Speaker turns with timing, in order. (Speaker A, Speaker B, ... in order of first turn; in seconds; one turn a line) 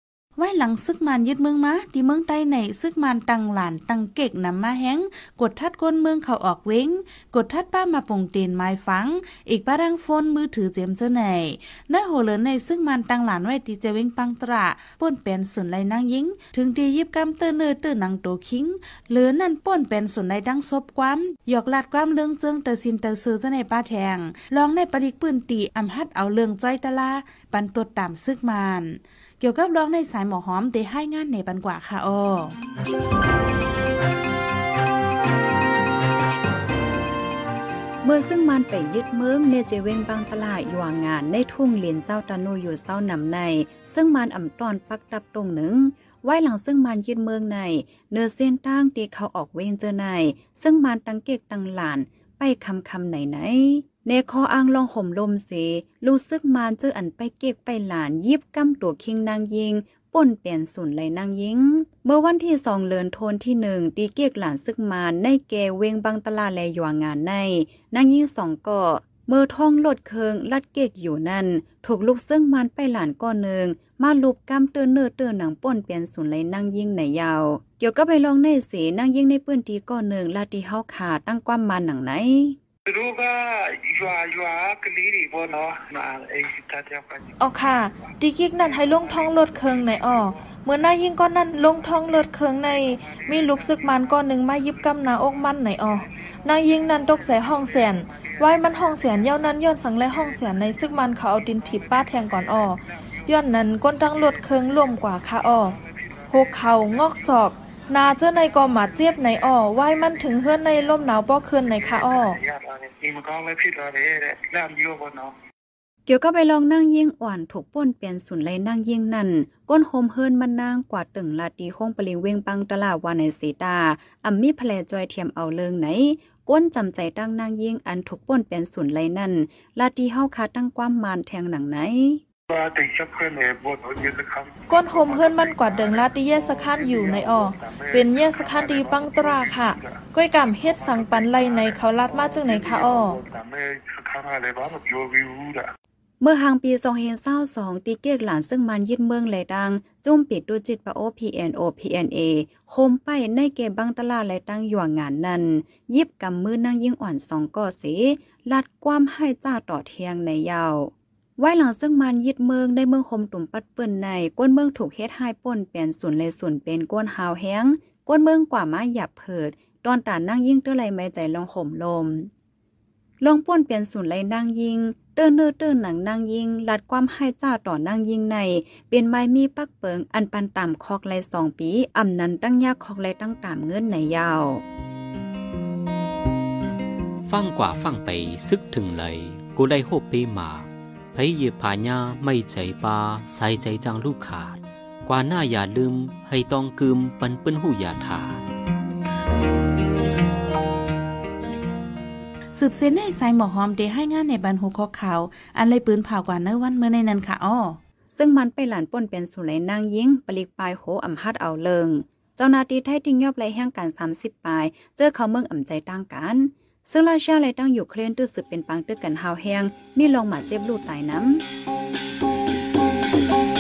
Speaker A: 0.4-32.6
Speaker B: 38.0-82.6
Speaker C: 82.9-88.0
Speaker D: 87.4-105.8
Speaker C: 88.6-90.5
Speaker C: 92.7-94.2
Speaker C: 96.0-103.3
Speaker C: 104.2-104.9
Speaker C: 105.7-107.3
Speaker D: 106.3-112.4
Speaker C: 108.4-109.5
Speaker C: 111.7-115.4
Speaker B: 116.1-132.2
Speaker C: 132.5-140.0
Speaker D: 134.7-143.2
Speaker C: 140.7-145.7
Speaker B: 146.2-172.3
Speaker B: 173.2-184.6
Speaker E: 187.3-198.4
Speaker A: 202.5-207.8
Speaker B: 208.1-221.4